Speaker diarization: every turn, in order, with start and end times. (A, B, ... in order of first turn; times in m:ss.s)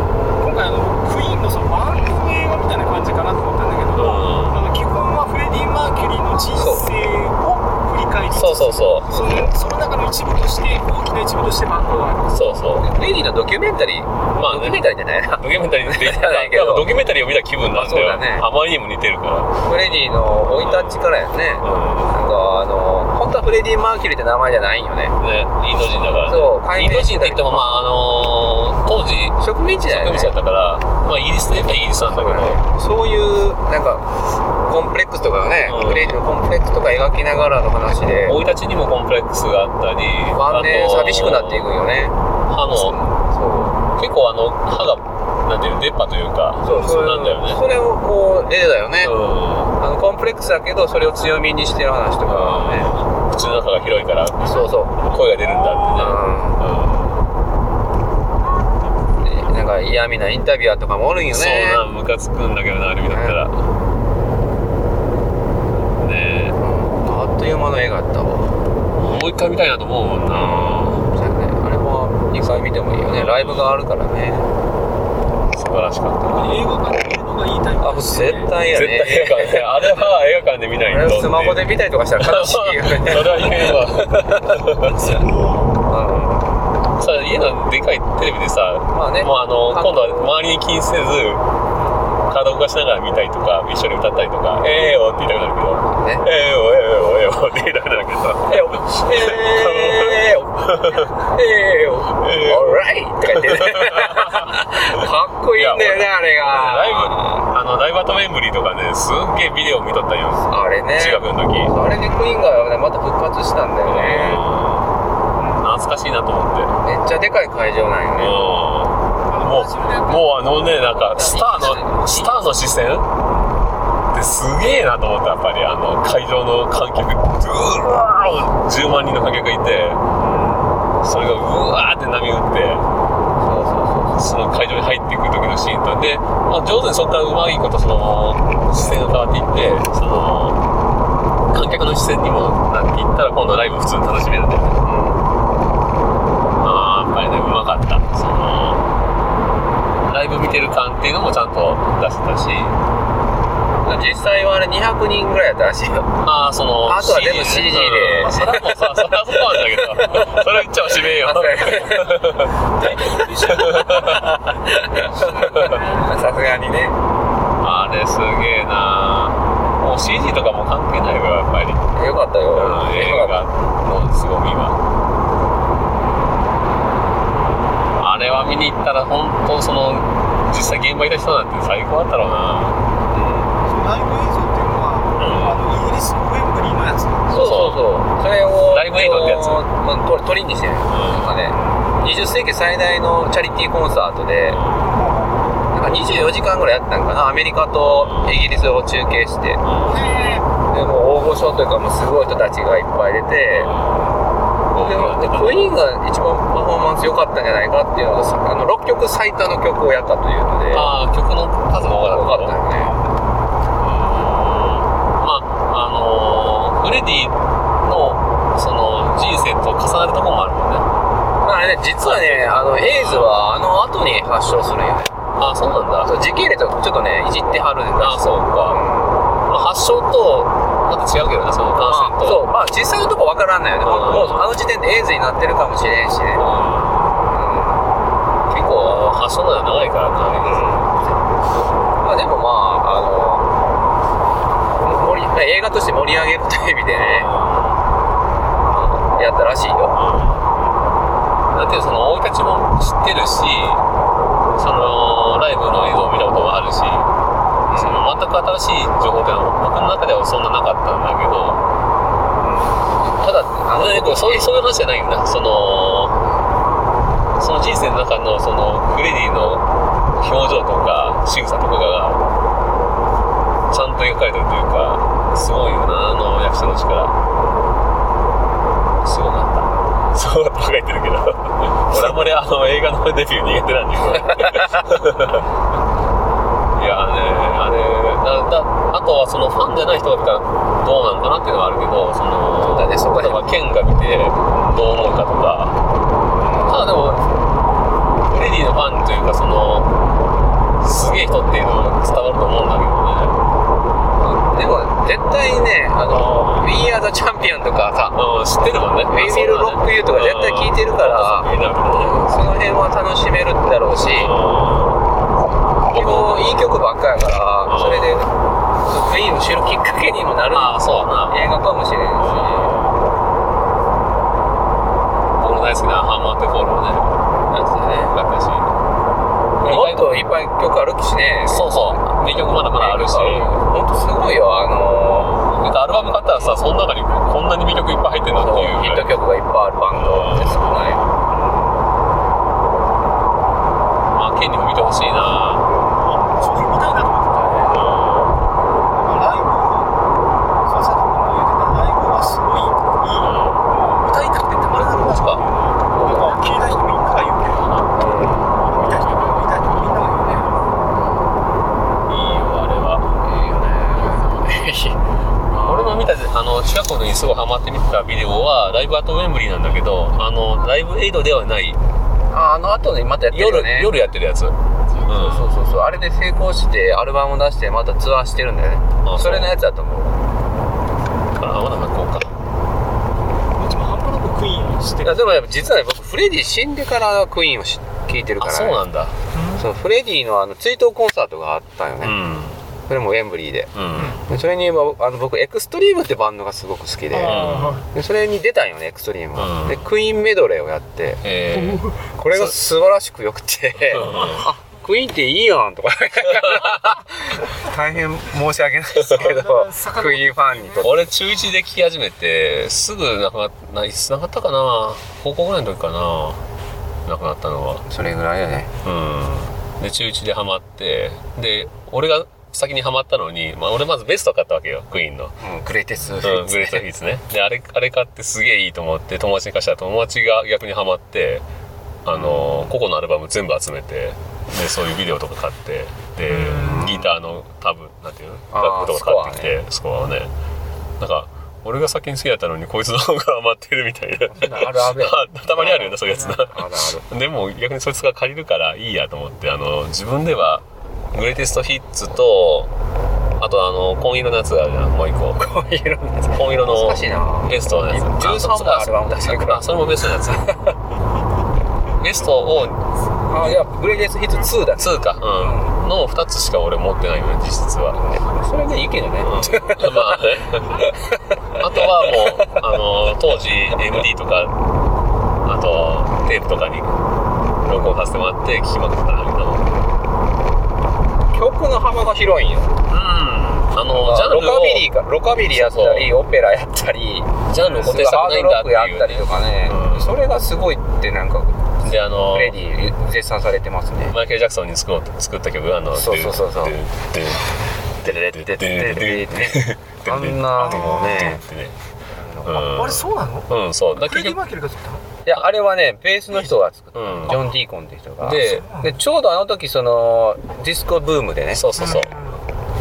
0:00.4-0:12.4 A
0:03.9-0:04.6 B
0:06.6-0:06.9 C
0:08.3-0:09.1 B
0:12.3-0:12.9 B
0:12.8-0:16.9 C
0:14.3-0:14.8 B
0:15.4-0:19.6 B
0:17.7-0:18.5 C
0:19.6-0:25.1 C
0:20.4-0:22.1 B
0:25.2-0:32.6 B
0:26.2-0:27.8 C
0:29.4-0:30.3 C
0:32.1-0:38.4 C
0:35.6-0:36.2 B
0:38.2-0:41.7 B
0:40.3-0:42.1 C
0:42.5-0:43.0 B
0:42.6-0:43.8 C
0:44.0-0:47.6 B
0:46.6-0:49.2 C
0:49.0-0:49.7 B
0:49.8-0:53.0 C
0:52.3-0:57.2 B
0:54.4-0:55.0 C
0:55.6-0:56.1 A
0:55.9-0:56.6 C
0:59.2-1:01.8 C
1:01.3-1:03.6 B
1:03.1-1:03.4 C
1:06.0-1:06.6 B
1:06.6-1:08.5 C
1:09.0-1:11.0 B
1:10.3-1:14.5 C
1:13.0-1:13.7 B
1:15.5-1:16.6 B
1:16.3-1:18.5 A
1:17.8-1:19.7 C
1:18.7-1:21.7 B
1:20.8-1:23.7 C
1:22.2-1:25.2 B
1:24.3-1:25.2 C
1:25.0-1:25.7 A
1:25.9-1:26.5 C
1:27.0-1:31.4 B
1:28.9-1:30.4 C
1:32.3-1:41.1 B
1:34.6-1:35.1 C
1:35.9-1:36.2 C
1:38.4-1:47.5 C
1:42.2-1:44.5 B
1:45.5-1:51.7 B
1:50.5-1:54.5 C
1:52.0-1:52.5 A
1:53.8-1:54.9 B
1:55.6-1:56.7 B
1:56.8-1:58.4 C
1:58.2-2:03.1 B
1:59.3-2:00.7 A
2:00.9-2:02.6 C
2:04.1-2:10.0 B
2:11.0-2:12.8 B
2:13.4-2:14.2 C
2:14.2-2:20.6 B
2:21.5-2:24.8 B
2:24.8-2:25.2 C
2:26.6-2:28.8 B
2:30.0-2:32.8 B
2:33.8-2:36.1 C
2:36.2-2:42.5 B
2:36.8-2:40.4 C
2:41.0-2:42.2 C
2:42.8-2:44.1 A
2:42.8-2:47.0 C
2:43.5-2:44.2 B
2:45.4-2:45.8 B
2:45.6-2:45.8 A
2:47.6-2:51.9 B
2:51.9-2:53.4 C
2:52.5-2:54.8 B
2:58.0-3:02.8 B
3:03.1-3:03.5 C
3:03.6-3:07.3 A
3:05.2-3:05.6 B
3:07.3-3:14.6 C
3:07.3-3:07.8 B
3:08.7-3:09.6 B
3:10.9-3:11.5 B
3:14.5-3:14.9 B
3:14.9-3:15.3 A
3:15.7-3:19.6 C
3:17.8-3:18.4 B
3:19.6-3:20.0 B
3:19.8-3:20.5 A
3:20.7-3:23.7 C
3:23.5-3:25.7 B
3:24.8-3:30.9 C
3:30.7-3:32.6 B
3:32.0-3:32.9 C
3:33.8-3:40.9 B
3:41.4-3:45.1 C
3:42.0-3:43.3 B
3:45.4-3:46.1 B
3:46.0-3:49.4 C
3:48.0-3:48.8 B
3:49.5-3:52.5 B
3:51.8-3:56.4 C
3:53.8-3:54.5 B
3:56.4-3:57.3 B
3:57.3-3:57.8 C
3:58.5-4:00.9 B
4:00.3-4:01.2 C
4:02.0-4:03.5 C
4:04.8-4:07.3 C
4:06.9-4:07.8 B
4:08.7-4:10.0 C
4:09.9-4:10.8 B
4:11.5-4:13.8 B
4:14.5-4:17.1 B
4:17.7-4:18.3 C
4:17.8-4:21.6 B
4:22.4-4:24.6 C
4:23.7-4:26.2 B
4:27.4-4:29.6 B
4:30.2-4:32.2 B
4:33.7-4:37.1 B
4:39.0-4:45.4 B
4:41.9-4:42.2 C
4:44.4-4:44.8 C
4:46.8-4:55.8 B
4:52.6-4:53.6 C
4:56.4-4:56.9 C
4:56.6-4:57.4 B
4:58.3-4:59.9 B
5:00.8-5:03.4 B
5:04.2-5:08.2 C
5:06.1-5:06.7 B
5:08.1-5:12.2 B
5:09.1-5:14.3 C
5:14.1-5:15.0 B
5:15.8-5:16.7 B
5:15.8-5:18.3 C
5:17.6-5:18.2 B
5:18.8-5:22.8 C
5:20.5-5:21.4 B
5:22.2-5:23.0 B
5:25.4-5:27.1 B
5:27.5-5:28.2 C
5:28.1-5:28.7 B
5:29.6-5:30.1 B
5:29.6-5:35.4 C
5:31.5-5:33.6 B
5:35.1-5:39.1 B
5:36.1-5:36.6 C
5:38.3-5:41.0 C
5:39.9-5:41.4 B
5:44.1-5:45.7 B
5:45.7-5:47.9 A
5:47.7-5:48.4 B
5:48.9-5:50.0 A
5:50.6-5:57.7 A
5:53.2-5:53.7 B
5:55.0-5:55.4 B
5:55.9-5:56.3 C
5:57.6-5:59.4 B
5:58.0-5:58.4 C
5:58.7-6:00.6 A
6:00.9-6:01.3 C
6:02.1-6:03.1 B
6:03.2-6:05.0 C
6:05.5-6:06.1 C
6:05.6-6:11.8 B
6:12.3-6:14.0 C
6:13.3-6:15.5 B
6:15.2-6:20.2 C
6:19.0-6:19.5 B
6:21.3-6:22.3 B
6:23.6-6:25.3 A
6:25.0-6:28.8 C
6:28.4-6:29.2 B
6:29.3-6:29.6 A
6:29.6-6:32.2 C
6:32.0-6:32.6 B
6:32.9-6:33.7 C
6:33.7-6:34.2 B
6:34.0-6:34.2 A
6:34.2-6:41.6 C
6:37.1-6:37.8 A
6:37.2-6:37.8 B
6:39.4-6:39.8 B
6:41.2-6:42.5 B
6:42.1-6:51.0 C
6:43.9-6:44.5 B
6:49.1-6:51.0 A
6:50.8-6:56.4 B
6:57.0-6:57.8 B
6:57.9-6:58.7 C
6:58.8-7:05.4 B
7:05.4-7:06.9 C
7:06.2-7:11.4 B
7:12.0-7:20.3 B
7:12.1-7:12.7 C
7:16.2-7:16.9 A
7:16.6-7:17.1 C
7:18.5-7:19.6 C
7:21.0-7:32.7 B
7:24.3-7:27.0 C
7:33.4-7:35.4 B
7:35.4-7:40.6 C
7:36.3-7:40.5 B
7:42.0-7:42.8 B
7:43.3-7:45.7 C
7:44.8-7:48.0 B
7:47.9-7:52.6 C
7:49.2-7:50.8 B
7:51.6-7:54.5 B
7:55.4-7:56.9 B
7:57.6-7:59.6 B
8:01.3-8:02.7 C
8:02.9-8:04.9 B
8:03.9-8:14.2 C
8:05.4-8:06.1 B
8:07.5-8:10.2 B
8:11.8-8:12.6 B
8:14.1-8:21.8 B
8:15.9-8:16.7 C
8:18.0-8:21.4 C
8:20.6-8:21.4 A
8:22.1-8:22.7 C
8:22.4-8:24.4 B
8:22.6-8:25.0 A
8:25.2-8:31.7 C
8:26.9-8:27.4 B
8:28.2-8:28.6 B
8:28.4-8:28.9 A
8:31.5-8:32.1 B
8:31.8-8:32.4 A